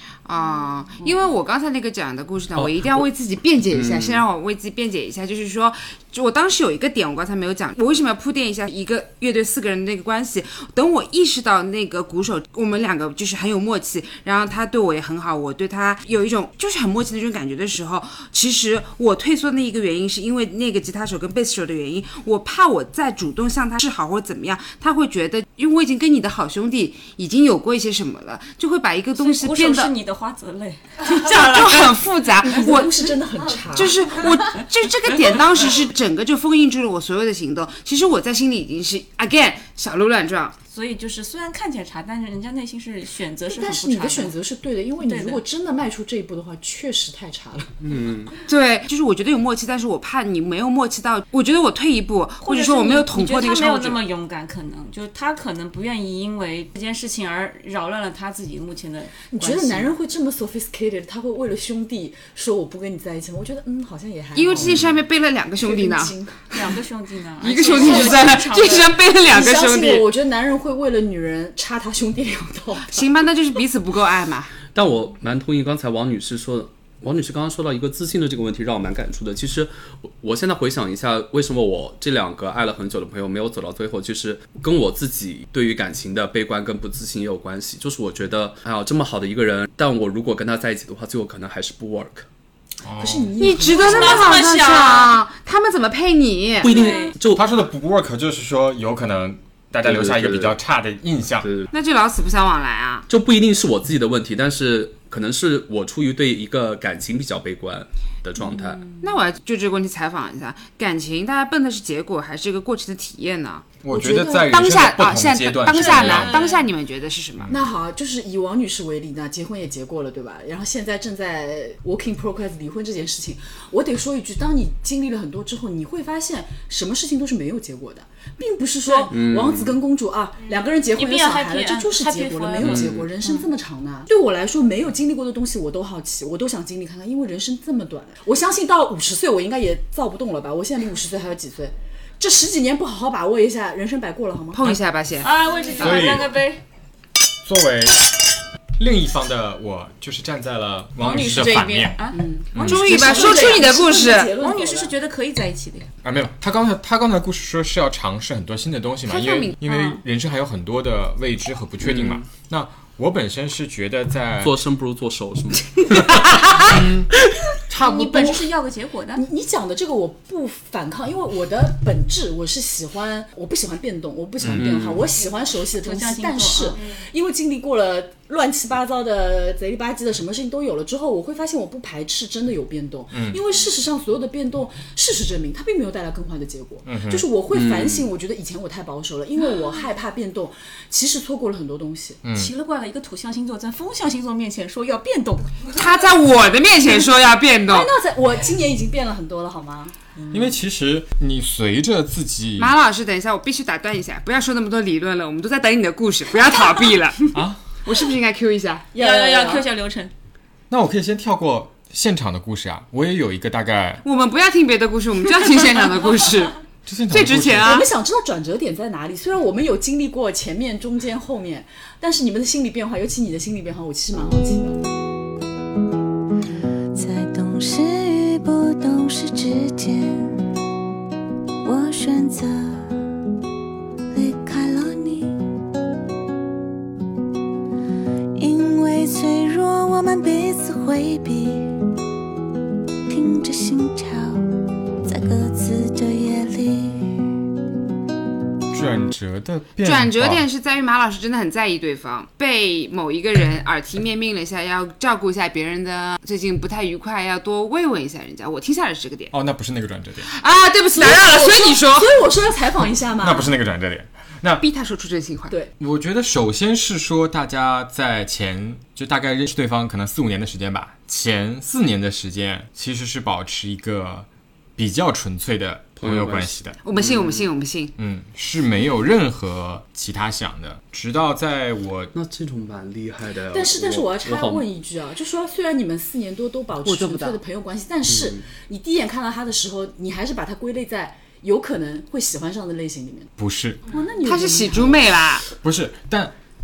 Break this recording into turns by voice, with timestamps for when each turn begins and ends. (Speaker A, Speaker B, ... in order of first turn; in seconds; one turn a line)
Speaker A: 0.2-29.9
Speaker B: 2.6-3.1
Speaker B: 3.7-4.2
Speaker C: 29.2-31.9
Speaker A: 31.0-33.2
Speaker D: 32.4-34.1
Speaker A: 33.7-40.5
Speaker C: 40.7-44.3
Speaker D: 43.5-47.7
Speaker C: 45.0-45.4
Speaker B: 47.8-48.3
Speaker A: 48.5-54.0
Speaker C: 52.4-59.9
Speaker D: 59.3-64.7
Speaker A: 64.3-66.1
Speaker B: 64.6-65.0
Speaker D: 65.6-66.8
Speaker C: 66.5-69.0
Speaker A: 67.4-70.1
Speaker D: 67.4-68.3
Speaker D: 69.2-73.1
Speaker A: 72.9-74.5
Speaker B: 74.7-92.3
Speaker E: 92.8-93.4
Speaker D: 93.0-94.5
Speaker A: 93.4-97.0
Speaker C: 93.8-95.1
Speaker B: 96.6-97.5
Speaker C: 96.7-97.1
Speaker E: 97.3-101.5
Speaker B: 99.8-100.6
Speaker B: 101.4-101.7
Speaker A: 101.7-103.1
Speaker B: 103.1-108.8
Speaker A: 109.0-113.7
Speaker E: 113.8-116.5
Speaker D: 113.9-114.6
Speaker A: 114.4-117.5
Speaker C: 115.7-116.6
Speaker D: 117.5-144.8
Speaker C: 128.8-129.1
Speaker B: 129.1-129.8
Speaker C: 130.9-133.5
Speaker B: 132.6-133.1
Speaker A: 144.5-145.3
Speaker C: 145.2-146.6
Speaker E: 145.8-146.3
Speaker E: 147.4-148.2
Speaker E: 148.8-153.1
Speaker C: 151.0-155.9
Speaker D: 152.1-154.9
Speaker A: 152.6-154.3
Speaker E: 156.0-164.6
Speaker A: 159.1-159.6
Speaker C: 159.6-160.0
Speaker B: 161.8-162.3
Speaker B: 164.4-166.9
Speaker E: 166.7-167.1
Speaker C: 167.7-169.2
Speaker D: 167.8-168.5
Speaker D: 169.2-192.2
Speaker E: 174.4-174.8
Speaker B: 174.6-175.1
Speaker C: 175.8-176.8
Speaker E: 183.1-183.4
Speaker E: 186.8-187.2
Speaker B: 187.5-188.1
Speaker E: 192.2-192.5
Speaker C: 192.3-195.8
Speaker A: 195.7-197.9
Speaker D: 197.7-199.9
Speaker E: 200.3-202.7
Speaker A: 202.6-207.3
Speaker E: 207.3-207.6
Speaker A: 207.8-208.9
Speaker D: 208.9-209.7
Speaker C: 209.0-210.1
Speaker E: 210.7-214.0
Speaker A: 214.0-216.6
Speaker E: 216.9-217.8
Speaker A: 217.1-217.9
Speaker D: 217.6-224.8
Speaker F: 226.9-230.4
Speaker F: 231.6-232.9
Speaker F: 234.1-235.4
Speaker F: 238.4-241.8
Speaker F: 243.1-244.5
Speaker F: 245.0-247.2
Speaker E: 248.7-250.4
Speaker A: 249.8-259.3
Speaker E: 259.3-260.3
Speaker A: 260.3-262.2
Speaker D: 261.0-263.5
Speaker E: 263.2-264.6
Speaker A: 264.6-265.6
Speaker E: 265.8-276.8
Speaker B: 276.0-277.5
Speaker A: 276.8-277.9
Speaker E: 278.0-282.1
Speaker B: 282.1-284.7
Speaker D: 283.5-293.3
Speaker A: 286.9-287.4
Speaker B: 288.1-288.4
Speaker E: 293.4-293.8
Speaker D: 293.9-295.1
Speaker A: 294.2-295.4
Speaker E: 295.5-296.3